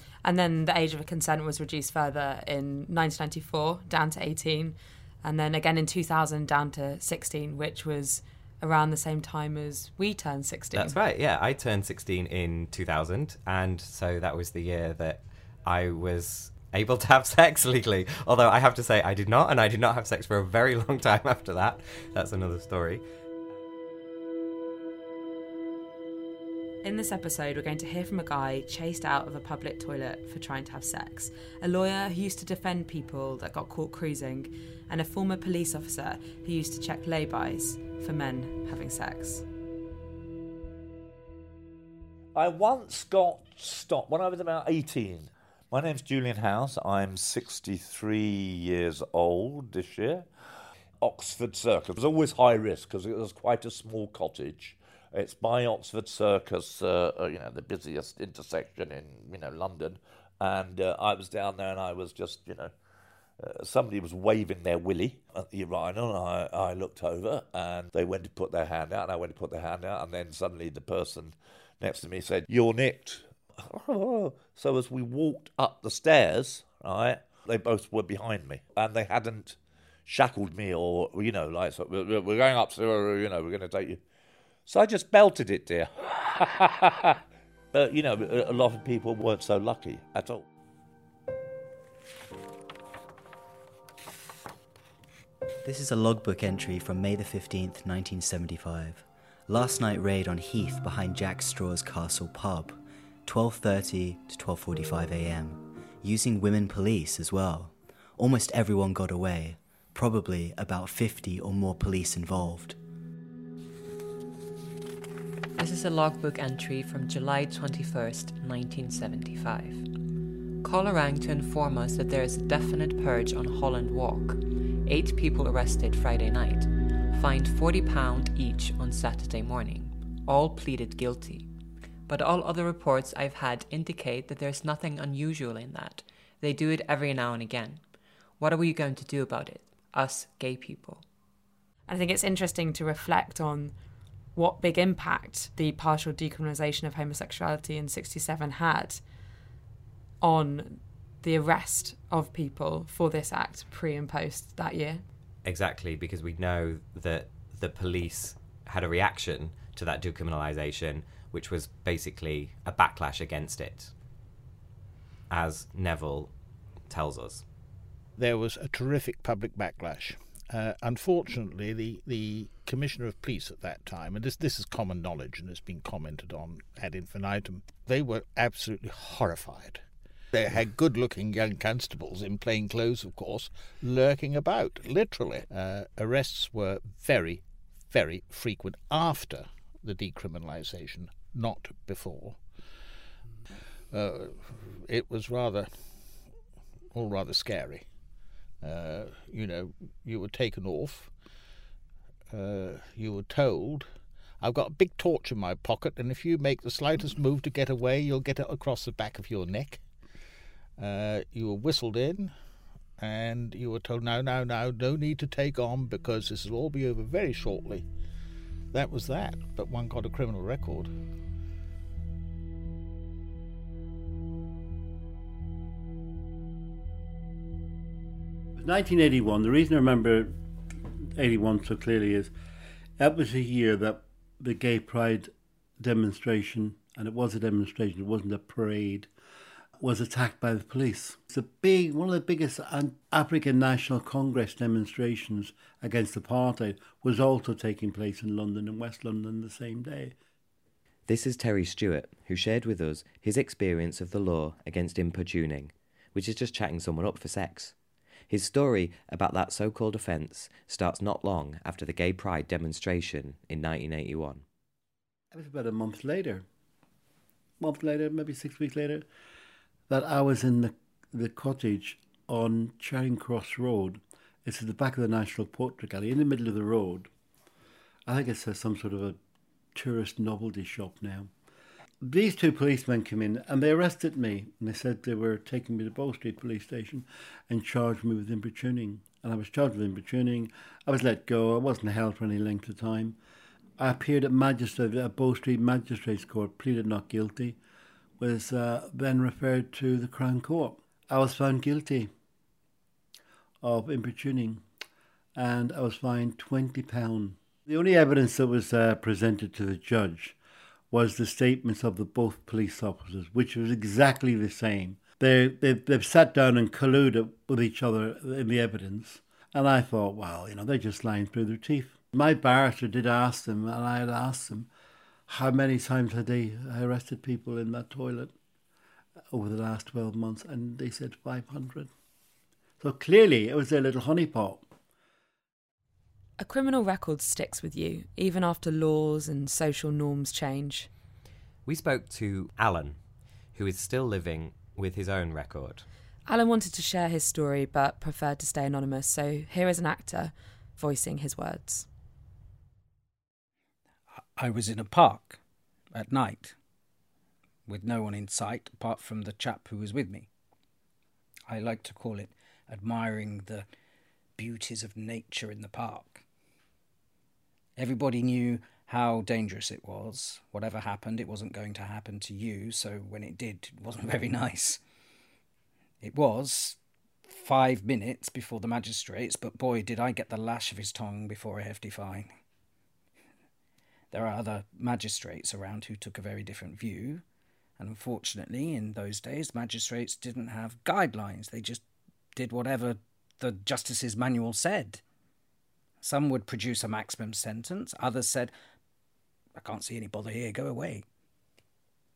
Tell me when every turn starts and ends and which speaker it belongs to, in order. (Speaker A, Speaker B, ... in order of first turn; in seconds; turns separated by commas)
Speaker A: 0.2-11.0, Speaker B: 10.8-23.0, Speaker A: 26.8-39.4, Speaker C: 42.3-50.3, Speaker C: 51.0-62.7, Speaker C: 63.4-84.0, Speaker C: 84.7-87.2, Speaker C: 87.7-90.4, Speaker D: 95.6-112.8, Speaker E: 115.5-119.9, Speaker E: 120.6-131.5, Speaker E: 132.1-137.8, Speaker E: 138.4-141.0, Speaker A: 141.9-143.7, Speaker A: 144.3-149.0, Speaker A: 150.2-155.0, Speaker B: 155.4-163.9, Speaker B: 165.3-166.3, Speaker B: 166.9-167.4, Speaker F: 168.2-179.8, Speaker F: 180.3-192.4, Speaker F: 193.9-195.7, Speaker F: 196.9-197.8, Speaker F: 198.6-201.1, Speaker F: 202.3-203.9, Speaker F: 204.4-209.8, Speaker F: 210.8-212.4, Speaker F: 213.0-217.9, Speaker F: 218.7-220.9, Speaker G: 228.6-230.3, Speaker G: 231.1-232.3, Speaker G: 233.0-239.1, Speaker G: 239.8-250.1, Speaker H: 251.1-257.7, Speaker H: 258.3-264.4, Speaker G: 265.3-266.4, Speaker G: 267.6-269.1, Speaker G: 269.9-277.1, Speaker G: 278.1-279.2, Speaker G: 279.7-281.3, Speaker G: 282.0-293.2, Speaker G: 293.8-297.6, Speaker G: 298.2-302.1, Speaker G: 303.6-304.6, Speaker G: 305.4-310.4, Speaker G: 310.9-324.7, Speaker G: 325.3-328.3, Speaker G: 329.3-331.9, Speaker G: 332.8-334.6, Speaker A: 336.4-340.9, Speaker B: 341.6-343.0, Speaker B: 343.5-345.8, Speaker A: 346.3-351.9, Speaker I: 354.4-355.4, Speaker I: 355.9-356.6, Speaker I: 357.7-360.3, Speaker I: 361.5-363.6, Speaker I: 364.4-366.2, Speaker I: 367.8-374.8, Speaker I: 376.0-382.3, Speaker I: 384.1-387.2, Speaker I: 387.8-391.8, Speaker I: 392.3-395.0, Speaker I: 396.0-398.5, Speaker I: 399.6-401.0